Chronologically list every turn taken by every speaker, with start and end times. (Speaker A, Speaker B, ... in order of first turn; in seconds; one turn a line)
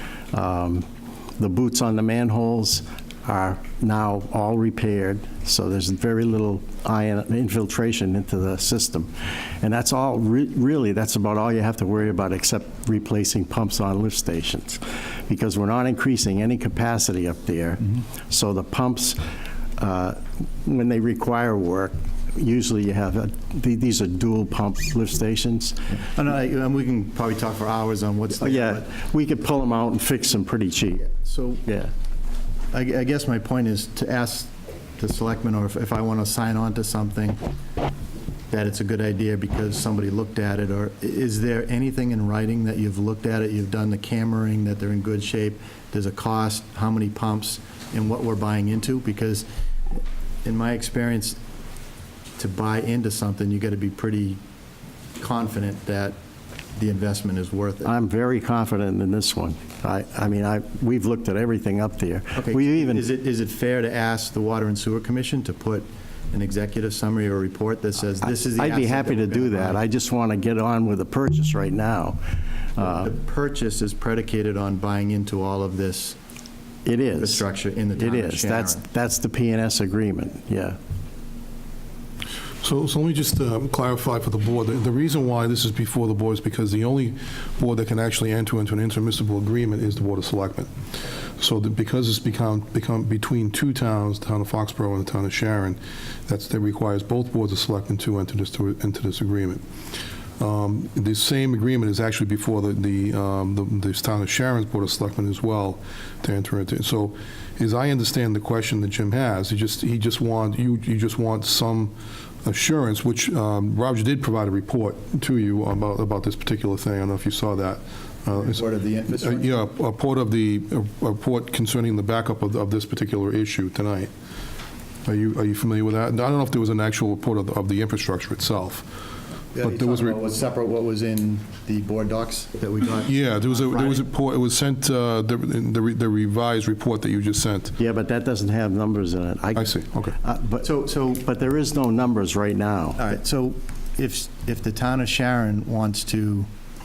Speaker A: 0.3-0.8
Speaker A: 1.4-19.2
Speaker A: 19.8-25.9
Speaker B: 26.1-28.8
Speaker A: 28.4-31.1
Speaker B: 31.1-31.6
Speaker A: 31.6-31.9
Speaker B: 32.7-37.4
Speaker B: 38.5-51.4
Speaker B: 52.4-54.4
Speaker B: 55.2-56.1
Speaker B: 56.8-57.9
Speaker A: 57.8-63.0
Speaker B: 62.4-69.8
Speaker A: 68.2-73.1
Speaker B: 72.8-76.2
Speaker A: 76.8-77.4
Speaker B: 77.2-78.8
Speaker A: 78.0-80.8
Speaker C: 82.6-90.7
Speaker C: 91.4-99.6
Speaker C: 100.4-118.6
Speaker B: 118.4-119.6
Speaker C: 119.2-124.1
Speaker C: 125.0-128.8
Speaker B: 129.5-134.0
Speaker C: 129.6-130.2
Speaker C: 133.0-137.8
Speaker A: 137.8-143.0
Speaker C: 139.6-140.1
Speaker B: 140.6-141.2
Speaker B: 143.0-146.5